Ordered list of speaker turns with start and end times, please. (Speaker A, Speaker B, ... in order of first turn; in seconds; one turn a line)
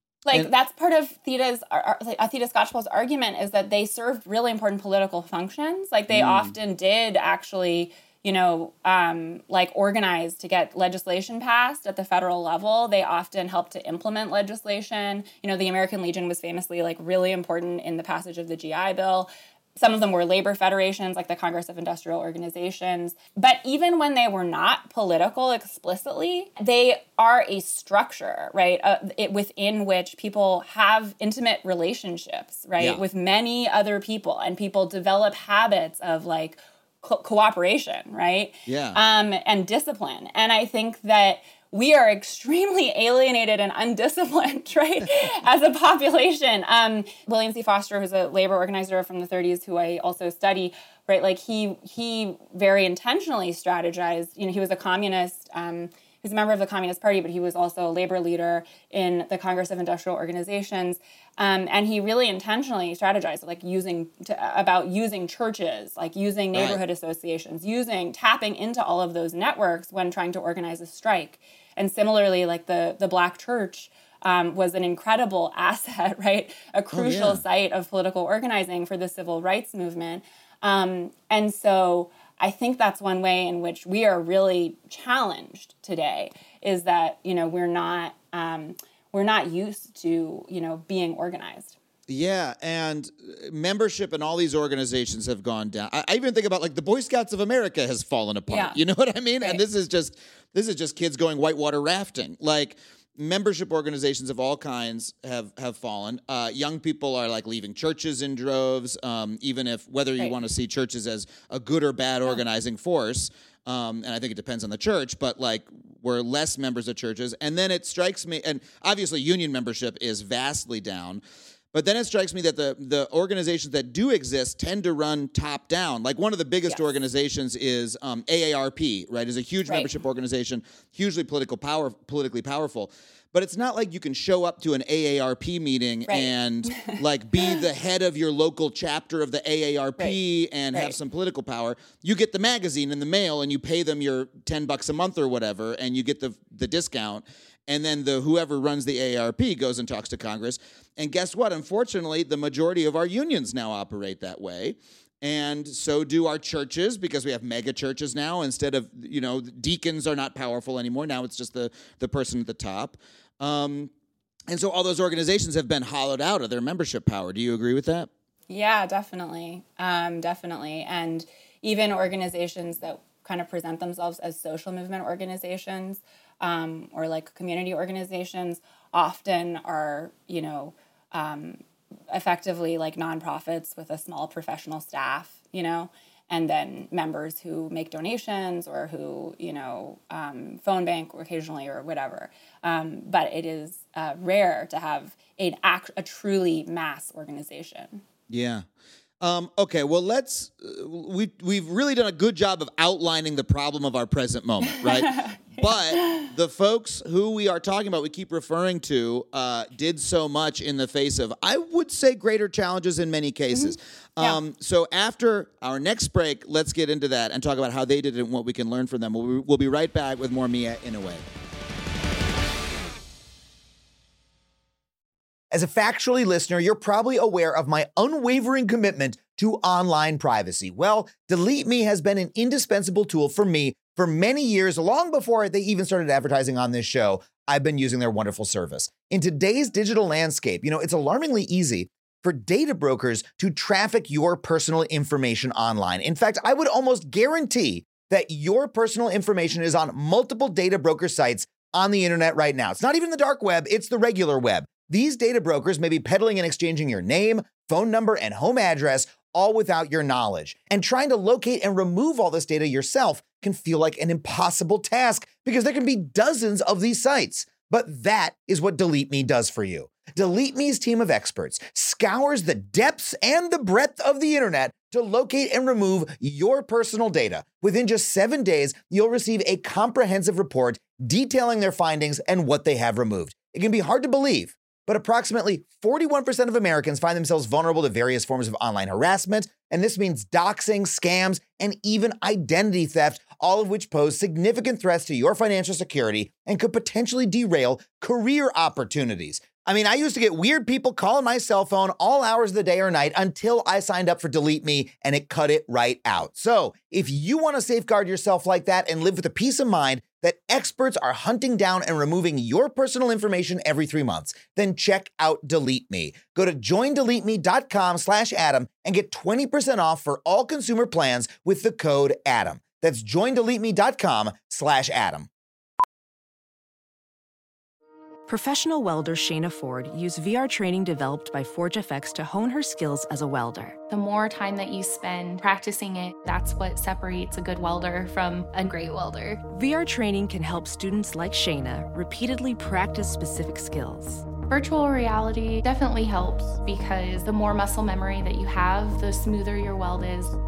Speaker A: 0.3-91.8
Speaker B: 6.1-6.5
Speaker B: 38.7-39.0
Speaker B: 66.5-66.8
Speaker B: 76.9-77.4
Speaker B: 92.1-121.2
Speaker A: 98.5-98.8
Speaker B: 121.7-163.9
Speaker A: 129.7-129.9
Speaker A: 136.1-137.6
Speaker A: 140.7-141.0
Speaker B: 164.5-168.1
Speaker A: 168.5-198.0
Speaker B: 198.3-198.6
Speaker B: 199.2-221.2
Speaker A: 204.6-206.2
Speaker A: 213.5-214.4
Speaker C: 225.5-325.3
Speaker D: 328.3-333.8
Speaker E: 333.9-339.4
Speaker D: 339.5-344.4
Speaker E: 344.4-350.4